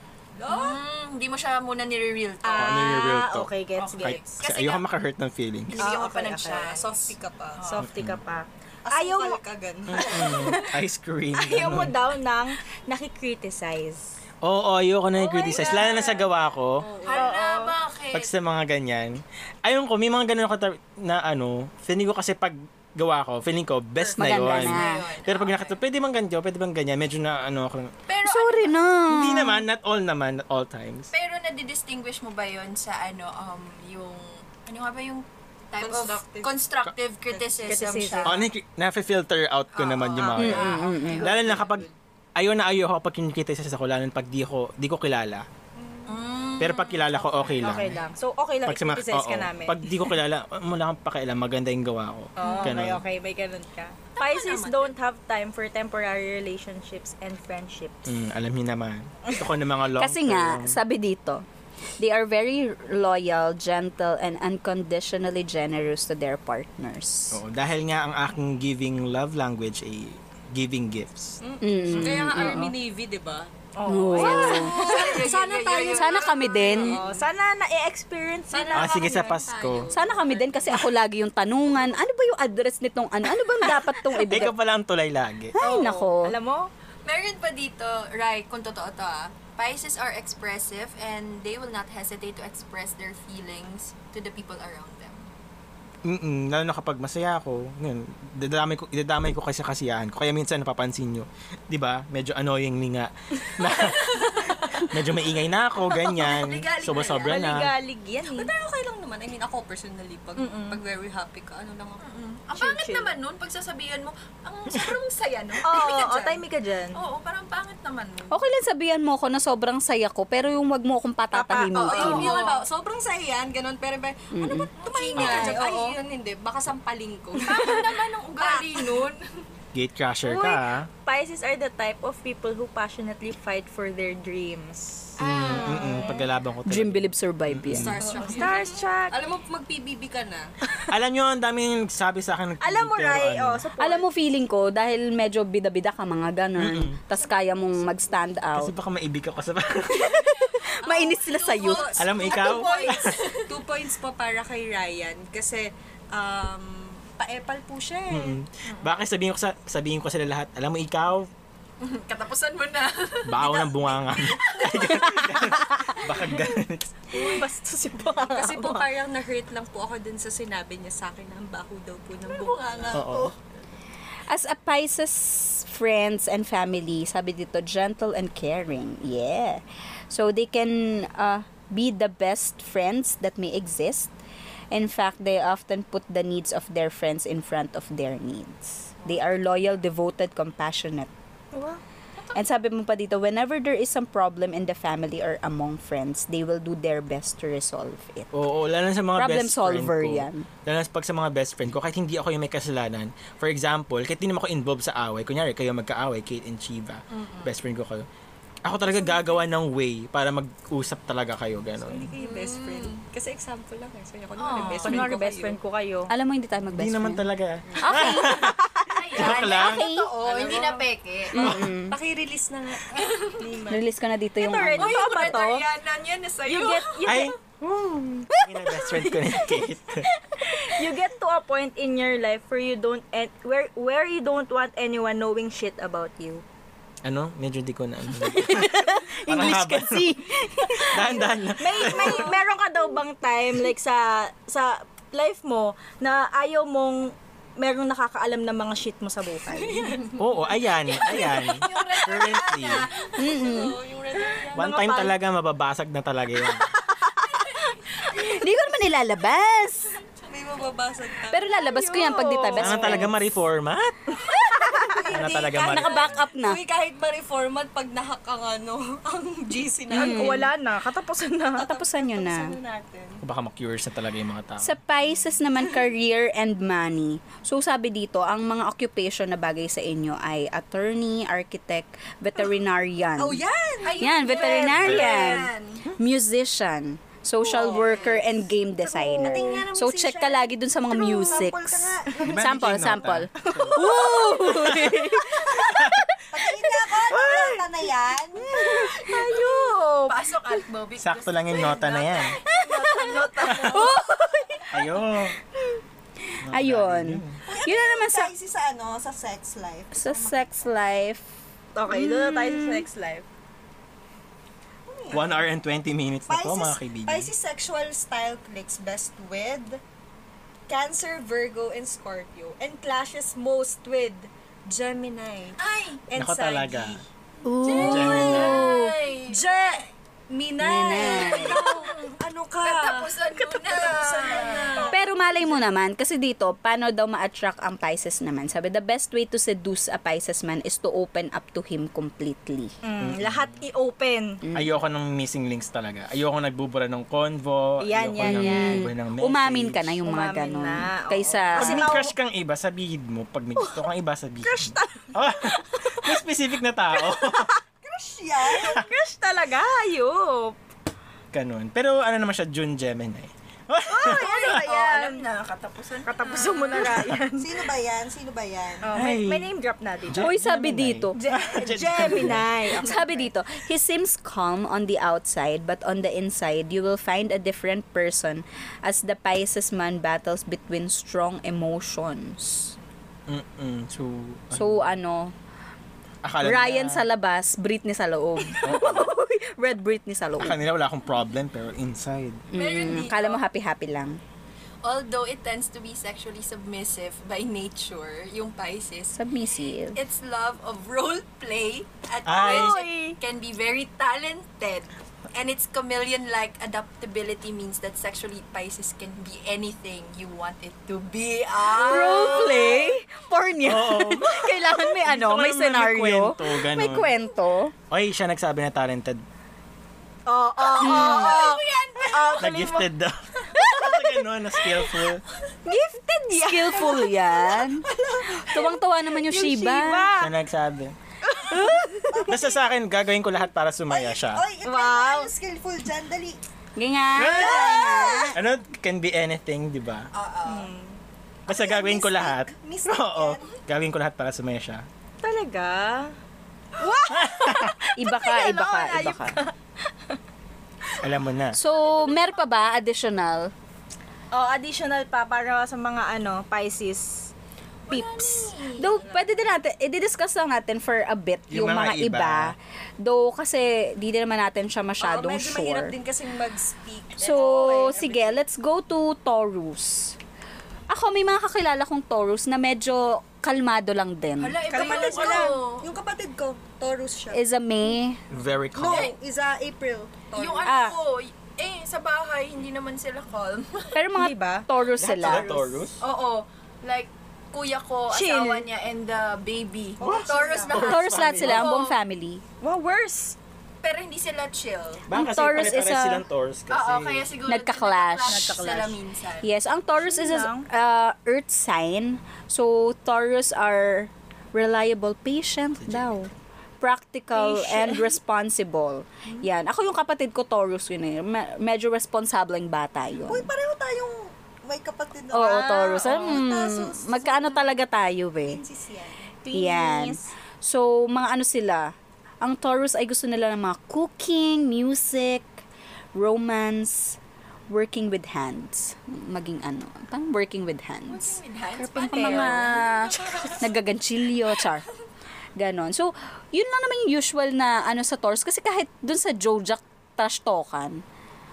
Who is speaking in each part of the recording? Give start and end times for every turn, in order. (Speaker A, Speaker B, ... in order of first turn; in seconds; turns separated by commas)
Speaker A: 0.4-0.8, Speaker B: 0.5-3.0, Speaker C: 2.4-4.2, Speaker D: 2.5-5.9, Speaker B: 3.8-4.8, Speaker B: 5.7-7.2, Speaker C: 5.8-6.7, Speaker A: 5.9-7.8, Speaker C: 7.6-9.4, Speaker D: 7.8-8.2, Speaker A: 8.8-10.5, Speaker D: 9.9-11.9, Speaker C: 10.0-10.7, Speaker C: 11.3-14.1, Speaker D: 14.4-16.8, Speaker B: 15.3-16.2, Speaker C: 15.4-16.0, Speaker A: 15.5-16.1, Speaker A: 16.8-17.4, Speaker B: 17.0-18.3, Speaker C: 17.1-17.7, Speaker D: 18.1-27.9, Speaker E: 24.1-25.0, Speaker B: 24.2-25.8, Speaker B: 28.1-28.8, Speaker E: 28.2-29.6, Speaker D: 29.1-31.1, Speaker B: 31.1-38.5, Speaker A: 35.8-36.6, Speaker A: 37.3-37.8, Speaker C: 37.6-38.4, Speaker D: 38.2-45.5, Speaker B: 39.7-41.6, Speaker E: 40.4-41.3, Speaker A: 41.0-41.8, Speaker B: 46.1-47.8, Speaker D: 46.6-47.9, Speaker C: 47.6-50.0, Speaker D: 48.6-53.0, Speaker C: 52.4-58.0, Speaker B: 52.4-52.7, Speaker B: 54.1-54.9, Speaker D: 58.0-60.8, Speaker E: 60.0-61.4, Speaker E: 62.0-67.4, Speaker D: 67.3-71.4, Speaker A: 71.4-73.5, Speaker E: 71.6-72.7, Speaker C: 71.9-72.4, Speaker C: 73.7-75.4, Speaker E: 73.8-74.9, Speaker A: 74.1-77.2, Speaker B: 74.2-77.0, Speaker E: 75.8-77.0, Speaker C: 76.8-79.1, Speaker A: 78.5-80.5, Speaker B: 78.6-80.2, Speaker D: 78.7-79.9, Speaker E: 79.9-84.5, Speaker D: 84.2-85.6, Speaker C: 85.5-86.7, Speaker E: 85.6-86.3, Speaker B: 87.0-95.3, Speaker D: 96.0-107.7, Speaker B: 104.1-104.8, Speaker B: 106.1-107.4, Speaker C: 107.2-108.5, Speaker A: 108.2-112.0, Speaker C: 110.4-110.8, Speaker B: 112.0-116.4, Speaker C: 112.5-113.2, Speaker C: 115.6-117.0, Speaker B: 117.0-118.4, Speaker E: 118.3-122.4, Speaker C: 121.3-122.5, Speaker A: 121.6-129.1, Speaker B: 121.8-122.6, Speaker E: 124.3-124.7, Speaker B: 124.8-126.0, Speaker D: 125.2-125.6, Speaker B: 127.4-129.2, Speaker D: 129.7-130.9, Speaker C: 130.2-135.1, Speaker B: 135.2-136.3, Speaker D: 135.2-138.0, Speaker A: 135.5-136.1, Speaker E: 136.6-138.0, Speaker A: 137.7-140.5, Speaker B: 137.9-138.7, Speaker C: 138.1-139.2, Speaker D: 140.9-143.6, Speaker C: 142.6-144.1, Speaker E: 143.8-148.7, Speaker D: 146.6-147.0, Speaker D: 148.5-150.3, Speaker E: 150.0-152.0, Speaker B: 150.4-153.5, Speaker A: 150.8-158.4, Speaker D: 152.0-153.2, Speaker D: 158.1-161.3, Speaker B: 158.7-158.9, Speaker B: 161.8-165.5, Speaker D: 163.2-167.0, Speaker C: 165.3-165.8, Speaker C: 167.1-168.8, Speaker A: 167.1-173.3, Speaker B: 172.3-173.2, Speaker D: 172.9-173.3, Speaker E: 174.3-184.1, Speaker E: 184.7-191.1, Speaker E: 192.3-198.3, Speaker D: 198.3-208.1, Speaker E: 199.1-200.5, Speaker B: 207.1-207.5, Speaker D: 208.6-212.1, Speaker B: 208.9-209.3, Speaker A: 211.9-215.6, Speaker B: 212.2-213.0, Speaker B: 214.4-215.1, Speaker C: 214.5-216.1, Speaker E: 216.1-217.2, Speaker D: 216.7-219.9, Speaker E: 217.8-218.6, Speaker B: 218.9-221.6, Speaker E: 219.2-220.1, Speaker A: 219.5-220.9, Speaker E: 221.3-222.0, Speaker D: 221.3-221.7, Speaker A: 221.9-223.8, Speaker B: 222.9-223.5, Speaker E: 223.7-225.3, Speaker C: 224.4-225.7, Speaker B: 224.7-227.2, Speaker C: 226.4-227.3, Speaker D: 227.0-230.0, Speaker C: 229.1-229.5, Speaker C: 230.2-236.4, Speaker D: 237.0-240.2, Speaker C: 238.4-238.9, Speaker E: 238.4-241.1, Speaker C: 240.6-250.0, Speaker D: 240.9-242.3, Speaker B: 249.6-253.7, Speaker D: 250.2-252.9, Speaker E: 253.2-253.8, Speaker A: 253.2-254.6, Speaker C: 254.5-255.2, Speaker D: 254.5-256.7, Speaker B: 257.3-257.7, Speaker E: 258.0-259.9, Speaker A: 260.3-261.6, Speaker E: 261.3-263.1, Speaker C: 261.5-263.1, Speaker D: 262.6-263.9, Speaker C: 264.3-265.0, Speaker A: 264.5-270.5, Speaker D: 265.1-266.2, Speaker E: 265.1-266.6, Speaker E: 269.9-270.5, Speaker C: 269.9-271.7, Speaker A: 271.6-273.2, Speaker E: 271.6-272.5, Speaker D: 273.2-274.8, Speaker E: 274.6-283.4, Speaker A: 283.2-285.5, Speaker B: 283.8-285.8, Speaker E: 284.0-295.8, Speaker D: 284.8-285.1, Speaker A: 287.5-288.2, Speaker B: 287.6-288.1, Speaker F: 289.1-290.4, Speaker A: 289.3-290.4, Speaker F: 290.9-292.5, Speaker D: 292.2-293.9, Speaker C: 293.4-295.9, Speaker D: 294.6-294.9, Speaker D: 295.6-296.0, Speaker F: 296.3-298.8, Speaker D: 297.1-297.5, Speaker C: 298.4-300.2, Speaker B: 299.1-304.0, Speaker D: 301.0-302.4, Speaker C: 302.4-305.0, Speaker D: 304.7-305.3, Speaker D: 306.4-307.4, Speaker E: 306.5-308.3, Speaker F: 307.4-310.7, Speaker E: 309.9-311.3, Speaker C: 311.7-313.2, Speaker E: 311.9-312.8, Speaker F: 314.9-315.4, Speaker D: 315.1-317.3, Speaker F: 316.3-319.8, Speaker A: 320.7-325.6, Speaker B: 325.6-326.0, Speaker A: 326.1-326.7, Speaker D: 326.1-327.0, Speaker C: 326.3-326.9, Speaker E: 327.4-328.9, Speaker A: 327.6-329.6, Speaker B: 327.6-329.4, Speaker D: 327.8-328.7, Speaker C: 329.3-329.6, Speaker A: 330.3-335.0, Speaker E: 330.6-331.6, Speaker C: 330.9-331.7, Speaker B: 331.4-331.9, Speaker B: 332.6-335.0, Speaker E: 334.9-342.7, Speaker C: 342.8-344.4, Speaker D: 343.0-343.6, Speaker E: 344.4-344.7, Speaker D: 344.5-350.0, Speaker C: 347.8-348.9, Speaker E: 348.2-352.0, Speaker C: 350.0-352.1, Speaker D: 351.5-357.5, Speaker C: 353.6-353.8, Speaker C: 354.4-356.2, Speaker C: 356.9-357.6, Speaker F: 357.8-358.8, Speaker C: 358.4-360.6, Speaker D: 361.3-364.6, Speaker C: 363.9-365.2, Speaker B: 364.0-366.9, Speaker A: 364.5-365.7, Speaker C: 366.0-367.5, Speaker F: 367.3-368.9, Speaker C: 368.8-370.3, Speaker D: 368.9-369.5, Speaker D: 370.1-372.5, Speaker E: 370.2-371.2, Speaker C: 371.1-373.1, Speaker E: 372.7-382.7, Speaker D: 383.3-384.9, Speaker E: 384.5-385.3, Speaker D: 386.2-387.1, Speaker E: 386.4-390.5, Speaker D: 388.6-389.1, Speaker D: 390.4-392.5, Speaker B: 392.5-393.4, Speaker E: 392.5-394.2, Speaker B: 394.8-399.2, Speaker E: 399.1-400.0, Speaker B: 399.9-412.9, Speaker D: 402.2-402.8, Speaker C: 402.4-403.2, Speaker C: 411.7-412.8, Speaker E: 411.7-417.7, Speaker D: 413.6-417.1, Speaker D: 417.9-419.2, Speaker C: 420.3-422.9, Speaker B: 420.6-422.4, Speaker E: 420.8-421.3, Speaker D: 422.4-425.2, Speaker C: 423.5-424.8, Speaker C: 425.6-427.2, Speaker E: 426.3-430.1, Speaker F: 427.6-428.7, Speaker C: 429.2-430.3, Speaker D: 430.2-430.9, Speaker C: 431.3-432.3, Speaker F: 432.1-432.6, Speaker D: 432.3-434.4, Speaker F: 433.9-436.4, Speaker C: 434.6-435.3, Speaker E: 436.8-438.4, Speaker D: 437.1-437.7, Speaker F: 437.1-438.4, Speaker D: 438.3-440.1, Speaker B: 440.1-440.7, Speaker C: 440.4-440.9, Speaker F: 441.5-443.5, Speaker D: 441.5-444.8, Speaker C: 445.2-446.1, Speaker C: 446.8-449.5, Speaker D: 447.1-447.7, Speaker E: 447.9-449.4, Speaker D: 451.0-451.6, Speaker E: 451.5-453.5, Speaker C: 454.3-457.3, Speaker B: 457.9-459.3, Speaker C: 457.9-458.5, Speaker E: 458.8-465.9, Speaker D: 461.5-462.5, Speaker A: 465.0-468.4, Speaker E: 467.2-470.1, Speaker E: 470.9-474.6, Speaker B: 474.4-475.9, Speaker F: 474.7-477.4, Speaker E: 477.3-478.2, Speaker D: 478.3-479.1, Speaker F: 478.7-480.7, Speaker B: 478.9-479.1, Speaker B: 480.3-484.0, Speaker E: 480.6-480.9, Speaker E: 483.9-485.5, Speaker C: 484.2-484.6, Speaker D: 484.9-486.0, Speaker B: 486.0-492.0, Speaker C: 488.1-488.7, Speaker F: 490.0-490.8, Speaker D: 490.0-491.7, Speaker E: 490.7-492.4, Speaker C: 492.6-493.4, Speaker B: 493.8-495.1, Speaker D: 495.1-497.3, Speaker E: 495.1-496.2, Speaker B: 496.7-499.5, Speaker E: 497.4-498.6, Speaker C: 498.3-499.0, Speaker E: 499.4-506.3, Speaker C: 500.0-500.7, Speaker D: 505.8-506.1, Speaker E: 506.8-513.5, Speaker C: 507.3-508.1, Speaker F: 513.2-517.7, Speaker E: 515.3-518.6, Speaker C: 515.4-516.4, Speaker F: 518.5-519.3, Speaker C: 519.4-520.2, Speaker E: 519.5-525.5, Speaker E: 526.1-527.2, Speaker E: 527.7-531.4, Speaker B: 531.1-533.8, Speaker C: 531.8-532.6, Speaker E: 532.1-534.8, Speaker E: 535.6-541.0